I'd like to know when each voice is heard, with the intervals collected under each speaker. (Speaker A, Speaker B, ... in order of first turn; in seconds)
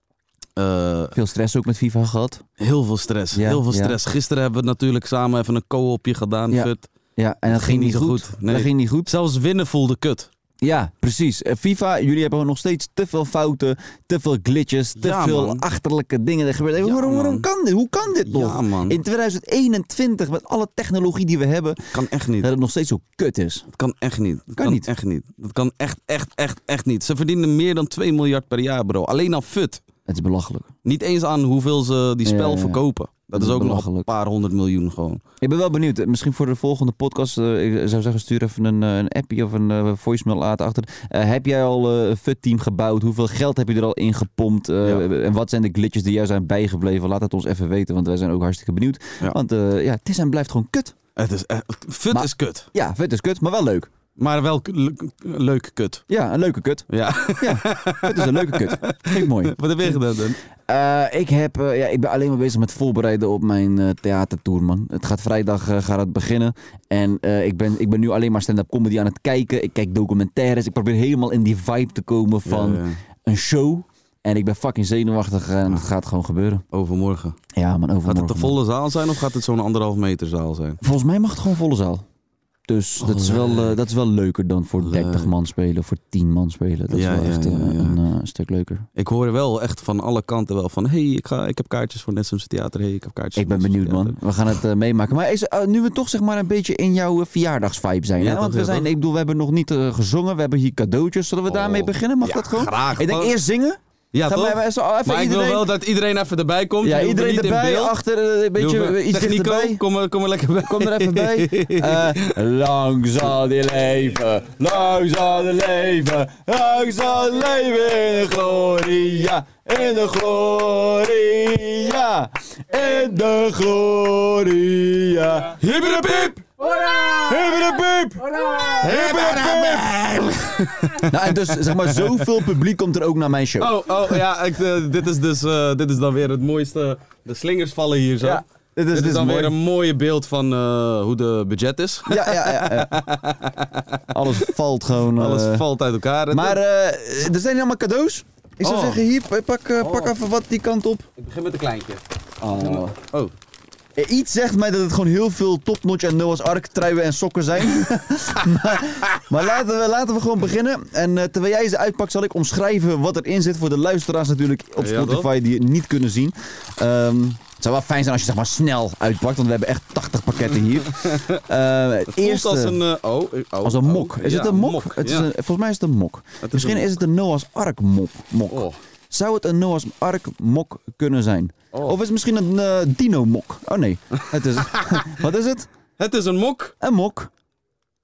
Speaker A: 0.6-1.1, 2.6-6.9, 7.5-10.3, 15.0-15.6, 16.8-17.4, 18.2-19.0, 21.9-22.5, 23.7-29.8, 30.8-35.2, 51.1-52.6, 54.2-56.0, 56.9-60.4, 72.5-73.0, 76.7-77.4, 78.0-80.8, 83.0-83.8, 84.8-85.3, 86.9-88.0, 89.0-94.2, 98.2-98.9, 101.5-103.3, 104.1-108.0, 108.5-112.3, 125.6-127.3, 128.8-132.2, 133.6-144.4, 145.2-146.6, 148.6-149.0, 149.8-150.1, 151.2-152.0, 152.6-153.3, 164.8-165.3, 171.0-171.3, 172.2-175.3, 176.4-176.9, 178.5-178.8, 184.2-185.0, 186.0-186.7
Speaker B: 1.1-2.4, 3.3-4.0, 6.5-9.1, 10.6-23.6, 24.6-24.9, 30.1-30.7, 32.2-32.8, 33.3-34.1, 35.4-50.9, 52.1-53.9, 56.1-60.0, 60.7-76.6, 77.5-78.6, 80.8-82.0, 82.7-88.9, 93.3-105.7, 106.8-109.8, 110.6-130.0, 131.0-134.1, 138.2-139.6, 142.1-142.9, 144.1-145.7, 146.3-151.1, 152.4-152.9, 154.0-172.8, 173.6-185.7, 186.8-187.3